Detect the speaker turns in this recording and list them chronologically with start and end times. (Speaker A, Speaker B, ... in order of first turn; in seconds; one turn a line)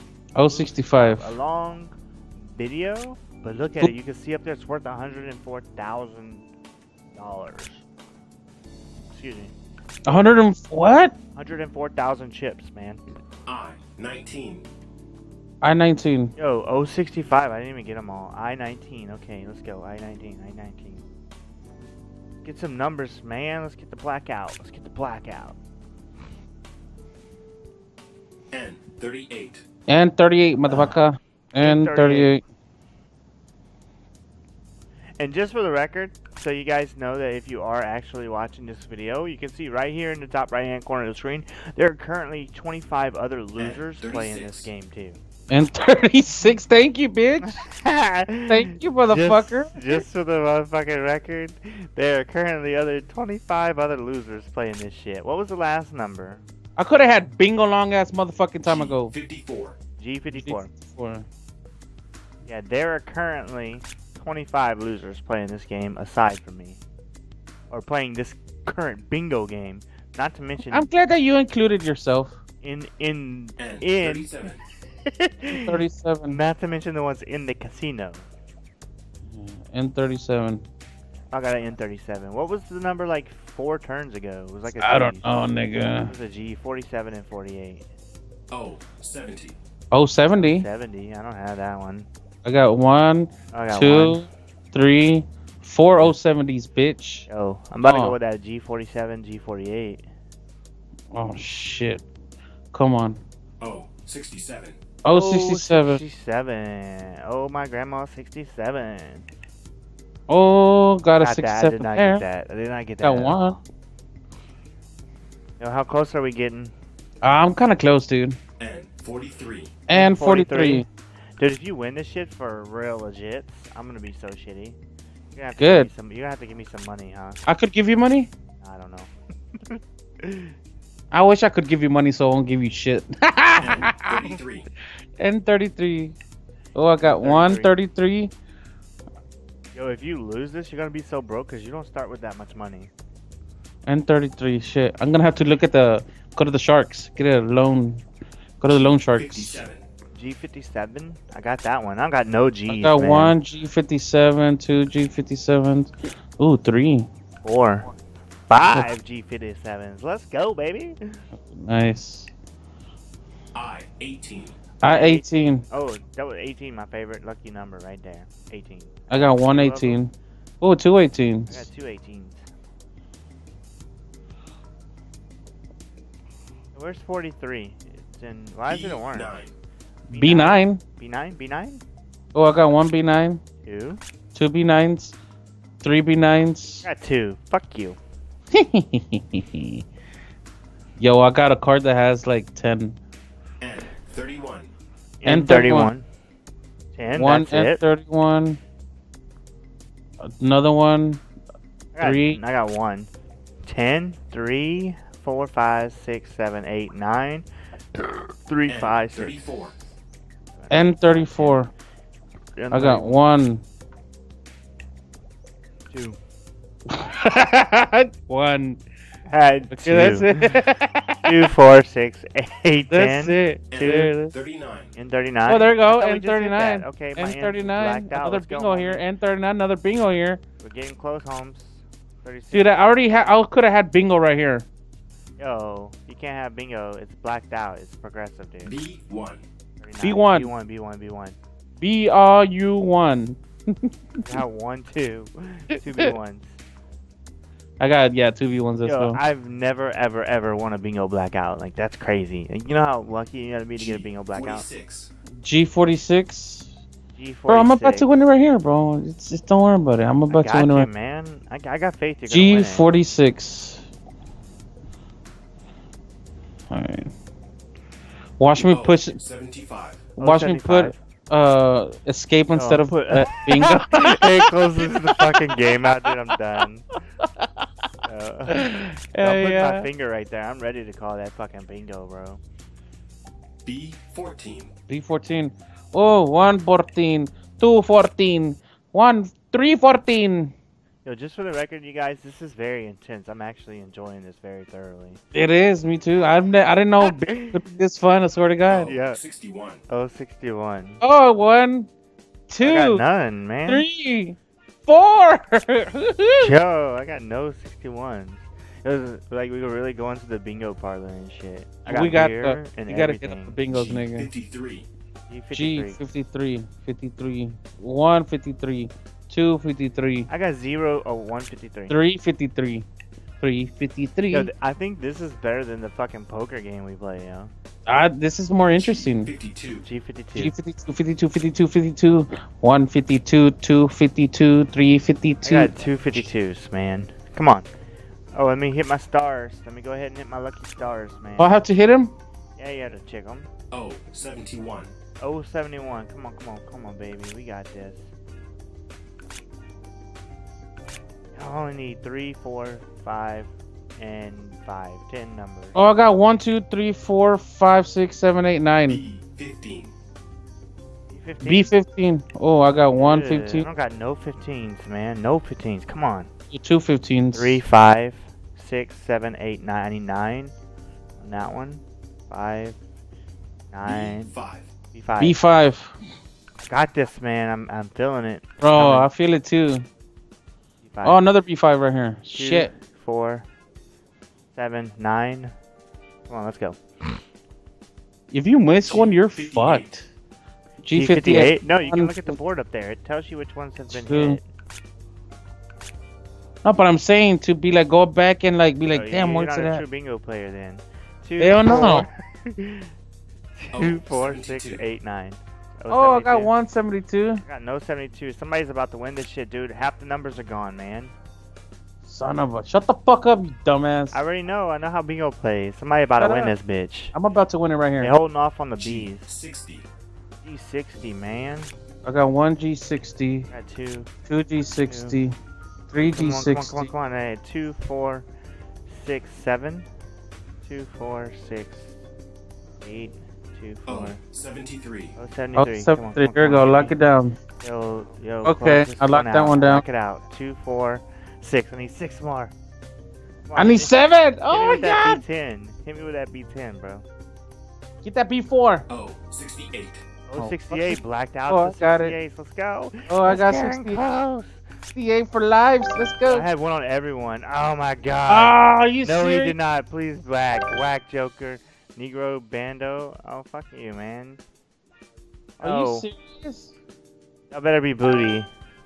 Speaker A: 0.3-1.3
Speaker B: 0.5-6.4
Speaker B: 7.1-7.8
Speaker B: 9.1-9.5
Speaker A: 10.1-11.1
Speaker B: 11.3-13.0
Speaker C: 13.5-14.7
Speaker A: 15.6-16.3
Speaker B: 16.4-21.0
Speaker B: 22.4-25.6
Speaker C: 28.5-29.6
Speaker A: 29.9-32.4
Speaker B: 30.7-31.0
Speaker B: 31.6-32.4
Speaker B: 35.2-45.2
Speaker C: 43.6-44.7
Speaker A: 45.5-47.6
Speaker B: 47.5-56.4
Speaker A: 48.5-49.8
Speaker A: 56.8-59.1
Speaker C: 58.6-59.8
Speaker B: 60.0-60.7
Speaker A: 60.3-61.2
Speaker B: 62.5-66.8
Speaker B: 67.7-70.9
Speaker A: 70.7-72.3
Speaker B: 72.6-74.3
Speaker C: 73.6-74.6
Speaker B: 75.0-78.2
Speaker A: 75.5-76.4
Speaker A: 79.3-80.6
Speaker B: 81.3-85.5
Speaker A: 84.8-86.1
Speaker B: 86.0-87.8
Speaker C: 88.5-89.5
Speaker A: 89.9-90.7
Speaker B: 90.4-92.1
Speaker A: 92.4-97.2
Speaker B: 93.5-94.2
Speaker B: 97.3-100.0
Speaker A: 97.8-98.1
Speaker A: 101.1-102.0
Speaker A: 102.7-103.2
Speaker C: 103.6-104.8
Speaker A: 105.0-106.0
Speaker B: 105.1-109.2
Speaker A: 110.3-112.2
Speaker B: 111.2-113.6
Speaker A: 113.0-113.6
Speaker B: 115.6-116.7
Speaker A: 117.2-118.4
Speaker C: 118.6-119.7
Speaker A: 119.9-120.8
Speaker B: 119.9-120.8
Speaker B: 121.4-124.8
Speaker B: 125.3-127.4
Speaker A: 125.6-125.9
Speaker A: 127.5-128.3
Speaker B: 128.6-130.5
Speaker A: 131.1-134.3
Speaker C: 133.6-134.7
Speaker A: 135.2-136.2
Speaker A: 136.8-138.3
Speaker B: 137.0-137.8
Speaker B: 139.7-142.9
Speaker A: 143.8-148.0
Speaker A: 148.6-149.6
Speaker C: 149.1-149.8
Speaker B: 150.1-153.3
Speaker A: 152.7-157.1
Speaker B: 157.4-157.9
Speaker B: 158.5-160.9
Speaker A: 161.7-162.3
Speaker C: 163.5-164.6
Speaker A: 164.8-165.6
Speaker B: 164.8-170.0
Speaker A: 169.1-171.7
Speaker B: 171.5-172.4
Speaker B: 176.7-179.4
Speaker C: 178.7-179.5
Speaker A: 180.1-180.8
Speaker B: 180.1-181.8
Speaker A: 182.3-183.4
Speaker B: 183.6-184.0
Speaker A: 184.3-185.2
Speaker A: 185.8-186.8
Speaker B: 186.8-188.0
Speaker A: 188.5-189.8
Speaker A: 191.0-192.9
Speaker C: 193.6-194.7
Speaker B: 195.2-196.1
Speaker A: 195.2-195.9
Speaker B: 196.9-197.8
Speaker A: 197.2-198.6
Speaker A: 200.4-201.2
Speaker B: 201.9-203.1
Speaker A: 202.0-202.4
Speaker B: 203.6-207.4
Speaker B: 208.0-209.7
Speaker C: 208.7-209.8
Speaker B: 210.5-211.6
Speaker A: 210.7-211.7
Speaker B: 212.6-213.1
Speaker A: 212.7-213.6
Speaker B: 215.9-216.2
Speaker A: 216.9-218.8
Speaker B: 219.3-220.7
Speaker A: 219.7-221.1
Speaker B: 221.2-223.4
Speaker A: 222.9-224.3
Speaker C: 223.7-224.9
Speaker B: 224.9-229.1
Speaker A: 225.5-230.4
Speaker B: 230.6-233.3
Speaker A: 232.5-234.7
Speaker B: 235.4-238.7
Speaker C: 238.6-239.4
Speaker B: 239.8-241.4
Speaker A: 240.0-240.5
Speaker A: 241.8-243.8
Speaker B: 244.2-246.6
Speaker A: 247.8-249.2
Speaker B: 248.8-254.7
Speaker C: 253.8-255.1
Speaker A: 255.4-256.7
Speaker B: 257.1-258.1
Speaker A: 257.5-260.9
Speaker B: 260.3-262.9
Speaker A: 262.3-263.8
Speaker A: 266.7-267.1
Speaker A: 268.4-269.2
Speaker C: 268.7-270.1
Speaker A: 270.2-275.3
Speaker B: 270.2-271.0
Speaker B: 272.5-276.9
Speaker B: 278.1-282.4
Speaker A: 278.5-279.8
Speaker C: 283.6-284.7
Speaker A: 284.9-290.5
Speaker B: 291.0-295.2
Speaker A: 295.3-298.9
Speaker B: 297.0-297.6
Speaker C: 298.7-299.8
Speaker B: 298.8-299.2
Speaker B: 299.9-301.0
Speaker A: 301.0-301.9
Speaker A: 302.5-303.0
Speaker B: 302.6-303.9
Speaker A: 303.7-306.5
Speaker B: 306.4-313.6
Speaker A: 311.9-314.3
Speaker C: 313.7-314.9
Speaker B: 315.3-316.0
Speaker A: 315.5-320.3
Speaker B: 320.3-322.0
Speaker A: 321.9-322.9
Speaker A: 323.4-324.5
Speaker B: 324.3-327.5
Speaker A: 327.9-329.3
Speaker C: 328.8-329.8
Speaker B: 329.8-330.5
Speaker A: 330.4-335.7
Speaker B: 335.4-337.7
Speaker B: 338.3-341.6
Speaker A: 341.4-342.1
Speaker B: 342.6-343.5
Speaker C: 343.7-344.9
Speaker B: 345.2-348.1
Speaker B: 351.3-355.8
Speaker A: 355.7-359.0
Speaker C: 358.9-359.9
Speaker B: 361.1-361.7
Speaker A: 361.4-363.7
Speaker B: 363.0-366.3
Speaker A: 366.5-367.6
Speaker B: 367.3-370.5
Speaker B: 371.2-372.8
Speaker B: 373.7-374.3
Speaker C: 373.8-374.7
Speaker B: 374.9-375.4
Speaker A: 375.2-375.9
Speaker B: 376.6-379.1
Speaker A: 378.6-379.9
Speaker B: 380.8-381.2
Speaker A: 381.0-382.7
Speaker B: 382.3-383.5
Speaker B: 384.5-385.5
Speaker B: 386.3-387.2
Speaker A: 388.3-390.1
Speaker C: 388.8-389.9
Speaker A: 390.8-392.4
Speaker B: 390.9-394.4
Speaker A: 393.9-394.4
Speaker A: 396.6-399.8
Speaker B: 398.9-402.9
Speaker A: 401.4-402.1
Speaker B: 403.6-406.5
Speaker C: 403.7-404.8
Speaker A: 405.9-407.4
Speaker B: 407.4-411.1
Speaker A: 412.0-414.1
Speaker B: 414.1-417.1
Speaker A: 416.2-416.5
Speaker A: 417.1-418.1
Speaker B: 418.0-419.3
Speaker C: 418.8-419.9
Speaker B: 420.4-421.7
Speaker A: 422.0-423.5
Speaker B: 423.5-424.1
Speaker A: 424.3-425.3
Speaker B: 424.9-425.2
Speaker A: 425.9-426.9
Speaker B: 426.0-428.3
Speaker B: 428.9-429.9
Speaker B: 430.6-432.0
Speaker B: 432.8-434.2
Speaker C: 433.9-435.1
Speaker B: 435.1-436.9
Speaker A: 435.5-437.4
Speaker B: 437.6-442.5
Speaker A: 438.4-439.8
Speaker B: 443.5-447.1
Speaker A: 443.6-445.2
Speaker A: 448.0-448.8
Speaker C: 448.9-450.0
Speaker B: 450.3-454.6
Speaker A: 450.4-452.1
Speaker A: 453.1-454.0
Speaker A: 454.8-456.4
Speaker B: 456.3-464.4
Speaker A: 458.3-459.5
Speaker B: 465.6-466.1
Speaker A: 465.6-466.7
Speaker B: 467.5-468.5